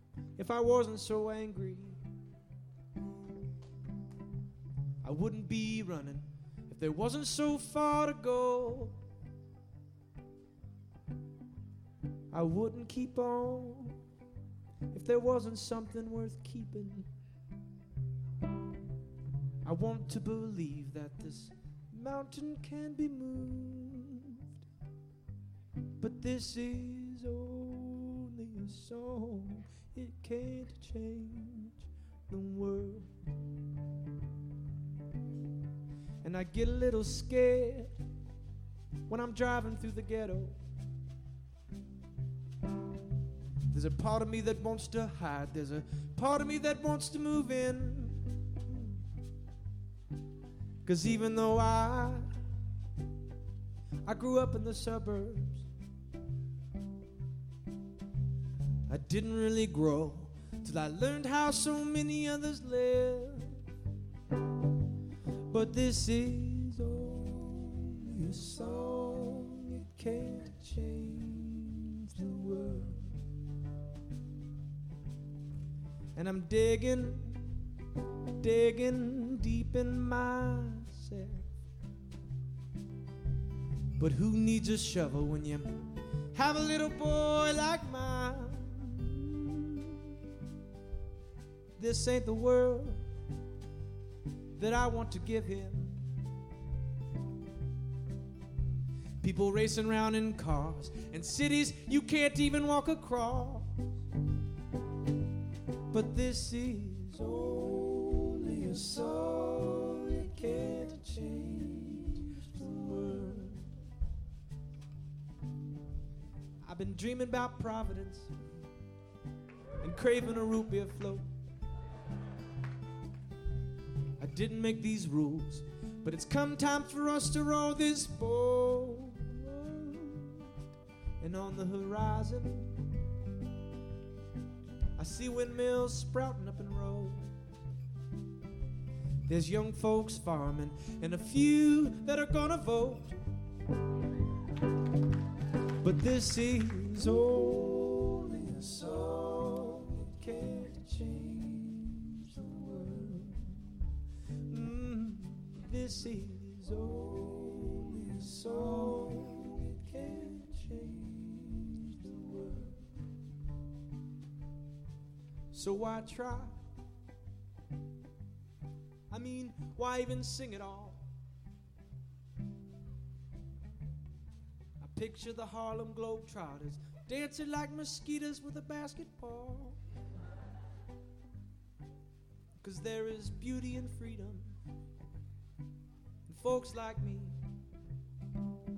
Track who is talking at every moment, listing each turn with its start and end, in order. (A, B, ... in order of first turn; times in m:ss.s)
0:00.4-0:02.0 A
0:05.0-0:09.0 A
0:12.3-0:14.0 A
0:14.9-0:17.1 A
0:19.6-0:24.4 A
0:26.0-0:33.1 A
0:36.2-0:38.0 A
0:39.1-0:40.6 A
0:43.7-0:48.9 A
0:50.8-0:52.3 A
0:54.0-0:55.6 A
0:58.9-1:03.6 A
1:05.5-1:13.1 A
1:16.1-1:17.4 A
1:18.4-1:21.5 A
1:24.0-1:29.9 A
1:31.8-1:33.0 A
1:34.6-1:36.0 A
1:39.2-1:43.7 A
1:45.9-1:53.7 A
1:56.6-1:58.3 A
1:59.8-2:01.3 A
2:04.2-2:10.5 A
2:11.2-2:12.8 A
2:15.0-2:17.3 A
2:19.3-2:23.2 A
2:25.8-2:33.8 A
2:34.5-2:42.8 A
2:45.5-2:46.6 A
2:49.1-2:51.1 A
2:54.8-2:59.8 A
3:02.6-3:04.6 A
3:06.3-3:07.4 A